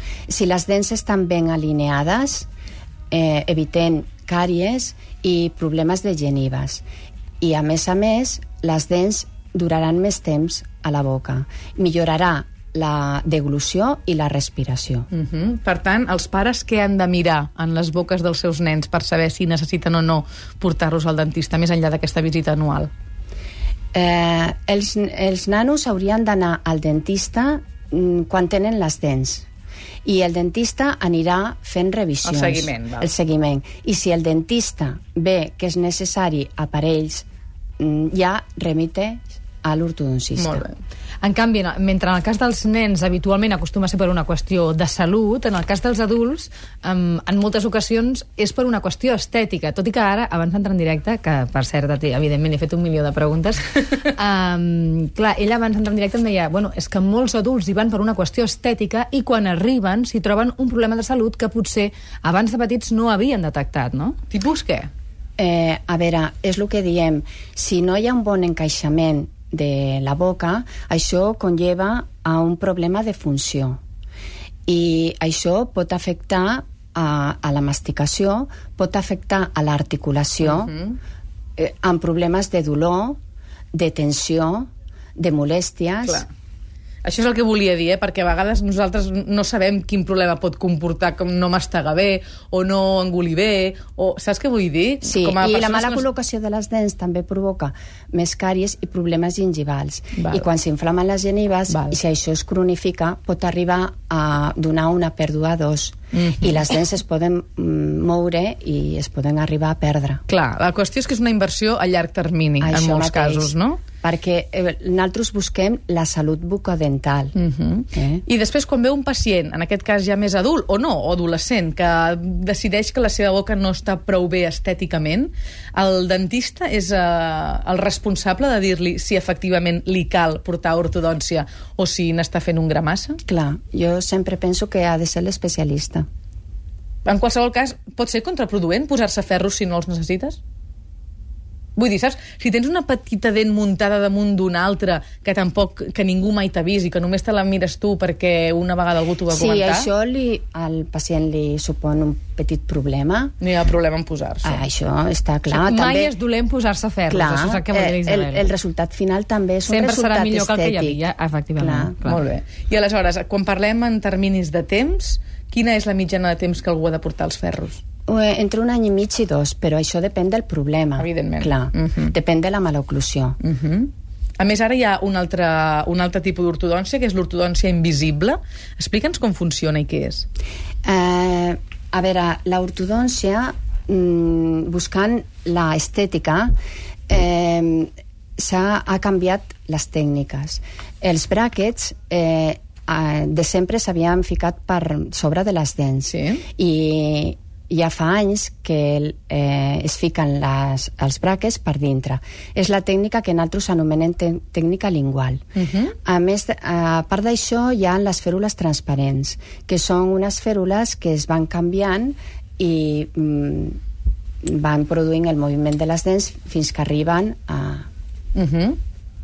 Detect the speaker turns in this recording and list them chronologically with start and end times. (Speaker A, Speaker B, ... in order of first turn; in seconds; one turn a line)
Speaker A: 0.3-2.5
Speaker A: 3.1-6.8
Speaker A: 7.4-15.1
Speaker B: 15.1-22.9
Speaker A: 23.9-29.5
Speaker A: 30.1-37.2
Speaker B: 32.2-33.1
Speaker A: 37.8-40.6
Speaker B: 40.4-40.8
Speaker C: 41.2-64.2
Speaker B: 64.3-64.9
Speaker A: 65.4-73.8
Speaker A: 74.7-80.7
Speaker B: 80.5-81.0
Speaker A: 81.6-83.2
Speaker A: 83.7-86.2
Speaker B: 87.0-96.0
Speaker A: 95.1-110.2
Speaker B: 100.2-100.5
Speaker B: 101.7-102.0
Speaker B: 106.1-106.6
Speaker B: 110.3-113.8
Speaker A: 112.6-117.3
Speaker B: 117.3-133.2
Speaker A: 117.9-118.2
Speaker A: 133.3-136.1
Speaker B: 137.1-140.4
Speaker B: 141.8-149.9
Speaker A: 149.3-153.3
Speaker B: 153.4-154.6
Speaker A: 154.4-156.1
Speaker C: 155.5-158.5
Speaker A: 157.1-161.0
Speaker C: 159.7-162.2
Speaker A: 161.6-162.0
Speaker B: 162.1-167.8
Speaker A: 168.1-173.4
Speaker B: 171.0-172.1
Speaker B: 173.4-180.3
Speaker A: 180.8-186.5
Speaker A: 187.1-205.5
Speaker B: 196.1-196.4
Speaker B: 205.6-205.9
Speaker A: 206.1-213.8
Speaker A: 214.4-217.9
Speaker B: 218.3-218.8